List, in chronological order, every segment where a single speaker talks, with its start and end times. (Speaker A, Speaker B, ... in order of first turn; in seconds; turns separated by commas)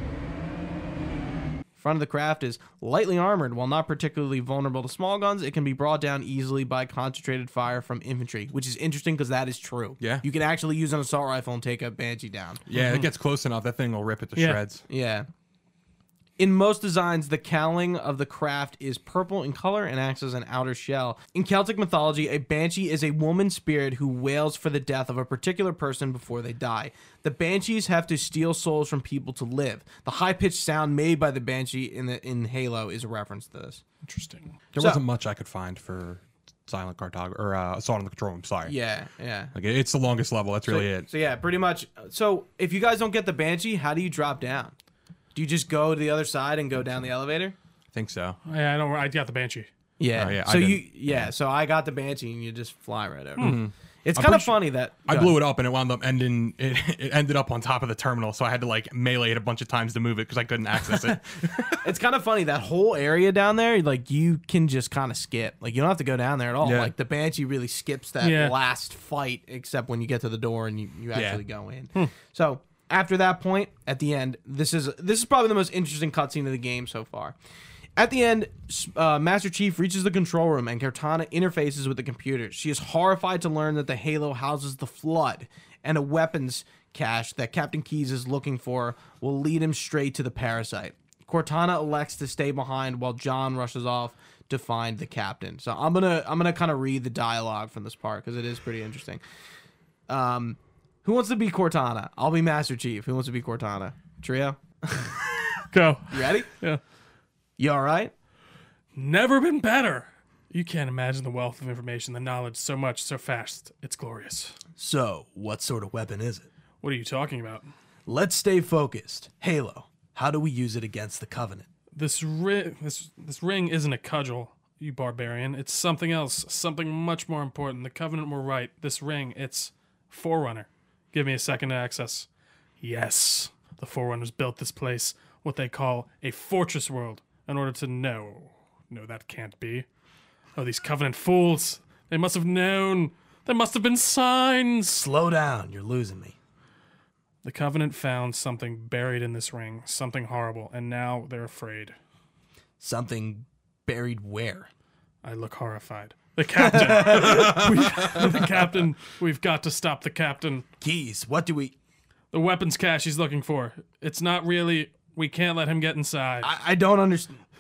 Speaker A: 1.8-12.6, Speaker B: 12.7-14.8, Speaker C: 12.7-13.1, Speaker A: 14.9-15.3, Speaker A: 16.4-33.8, Speaker C: 34.0-34.5, Speaker B: 34.7-38.7, Speaker A: 34.8-35.0, Speaker A: 38.6-39.5, Speaker B: 39.5-41.1, Speaker A: 40.6-44.7, Speaker A: 45.3-47.5, Speaker B: 47.9-48.4, Speaker C: 48.5-49.7, Speaker A: 50.0-55.4, Speaker B: 50.1-50.8, Speaker B: 53.4-61.8, Speaker A: 61.7-77.4, Speaker B: 66.6-66.9, Speaker C: 68.2-68.5, Speaker B: 71.1-71.4, Speaker A: 78.0-99.2, Speaker A: 100.1-105.6, Speaker C: 105.7-106.8, Speaker A: 106.1-106.5, Speaker A: 107.6-108.1, Speaker C: 109.0-114.6, Speaker A: 114.8-116.5, Speaker C: 116.8-117.7, Speaker A: 118.1-121.7, Speaker C: 121.9-132.3, Speaker C: 132.8-139.9, Speaker C: 140.6-145.0, Speaker A: 144.9-146.3, Speaker C: 147.4-151.9, Speaker A: 152.8-154.7, Speaker C: 155.2-160.6, Speaker A: 156.6-158.2, Speaker B: 157.3-157.6, Speaker A: 160.8-161.7, Speaker C: 162.3-166.5, Speaker A: 166.4-167.4